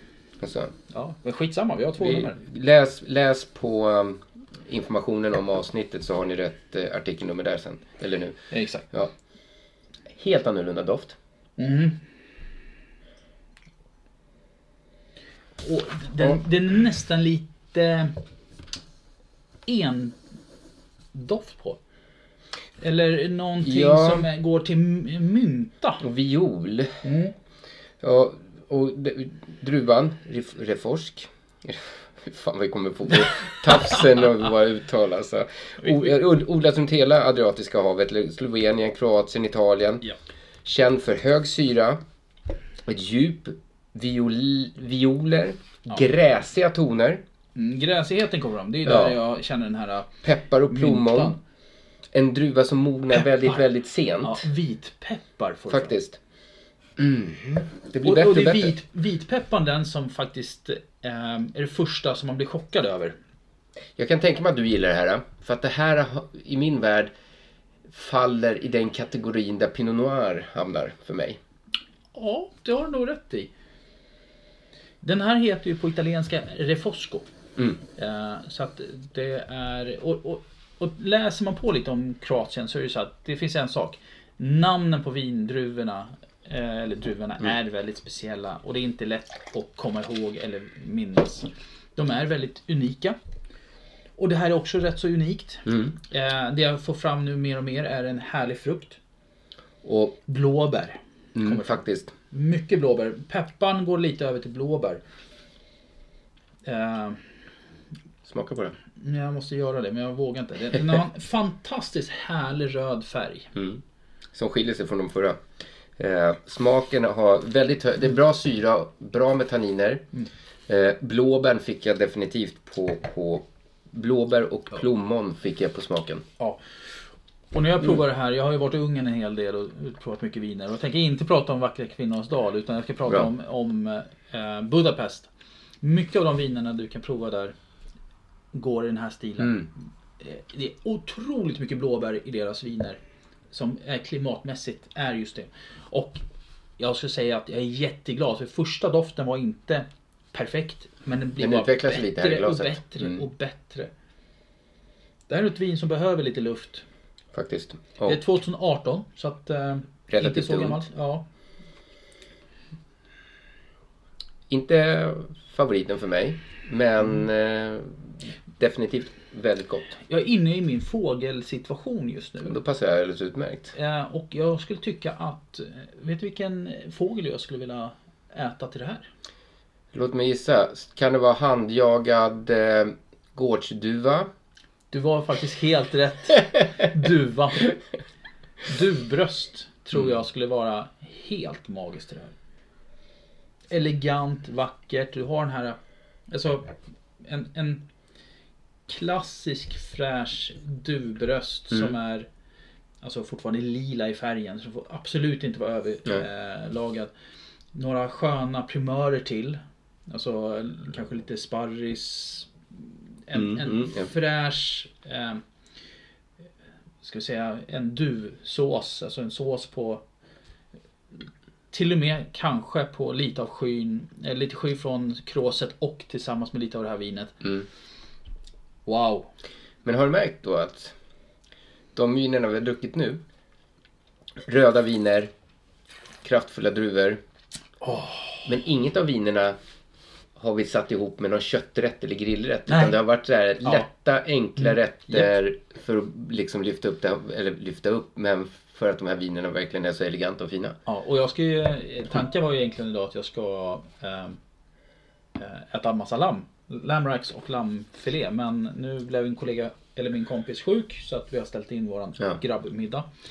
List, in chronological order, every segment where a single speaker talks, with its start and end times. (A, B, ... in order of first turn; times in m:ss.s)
0:00.4-0:00.7 A
0:00.9-0:02.4 B
0:02.0-0:09.1 A
0:08.5-0:08.8 B
0:10.1-0:11.2 A
0:11.6-0:12.0 B
0:15.6-0:18.2 B
0:19.6-0:20.2 B
0:21.1-0:21.8 B
0:22.8-0:26.0 B
0:23.6-0:24.3 A
0:26.0-0:27.0 A
0:27.0-0:27.3 B
0:28.0-0:40.0 A
0:40.6-0:42.0 A
0:42.8-0:47.2 A
0:47.6-0:50.1 B
0:48.8-0:49.2 A
0:50.2-0:51.4 A
0:50.7-0:51.4 B
0:52.1-0:54.5 A
0:53.1-0:53.6 B
0:54.2-0:55.9 B
0:55.7-0:56.2 A
0:57.0-0:58.7 A
0:58.0-1:03.2 B
1:04.0-1:07.1 A
1:07.9-1:11.4 A
1:12.1-1:13.5 B
1:15.0-1:17.3 B
1:18.0-1:33.2 B
1:34.2-1:39.0 B
1:35.6-1:36.0 A
1:39.8-1:40.2 A
1:40.3-1:41.8 B
1:41.3-1:42.1 A
1:42.3-1:45.0 B
1:46.6-1:47.2 B
1:48.2-1:48.8 A
1:49.0-1:53.5 B
1:53.5-1:53.8 A
1:54.3-1:55.4 A
1:56.0-2:00.0 A
2:00.7-2:06.2 A
2:07.5-2:15.3 B
2:15.8-2:17.5 B
2:18.5-2:19.6 B
2:19.4-2:19.7 A
2:20.2-2:23.0 B
2:23.5-2:26.2 B
2:26.8-2:33.9 B
2:31.4-2:33.2 A
2:35.3-2:36.8 B
2:37.3-2:38.2 A
2:38.0-2:41.2 B
2:40.1-2:40.8 A
2:44.5-2:50.0 A
2:50.1-2:52.6 B
2:52.4-2:53.7 A
2:53.7-2:59.0 B
2:59.9-3:04.3 A
3:04.9-3:07.7 B
3:08.7-3:12.3 B
3:13.7-3:15.8 B
3:16.3-3:16.7 B
3:17.2-3:17.8 B
3:18.9-3:22.3 B
3:23.0-3:27.1 B
3:27.7-3:32.5 B
3:33.3-3:35.4 B
3:33.3-3:34.1 A
3:37.0-3:40.0 B
3:41.7-3:47.5 B
3:48.8-3:49.3 B
3:49.8-3:50.9 A
3:51.9-3:53.2 A
3:54.4-3:55.3 A
3:56.2-3:57.2 A
3:57.8-3:58.5 B
3:58.4-3:59.6 A
4:00.4-4:10.8 A
4:02.7-4:03.0 B
4:03.6-4:03.9 B
4:04.6-4:05.3 B
4:10.8-4:14.4 B
4:15.4-4:23.1 B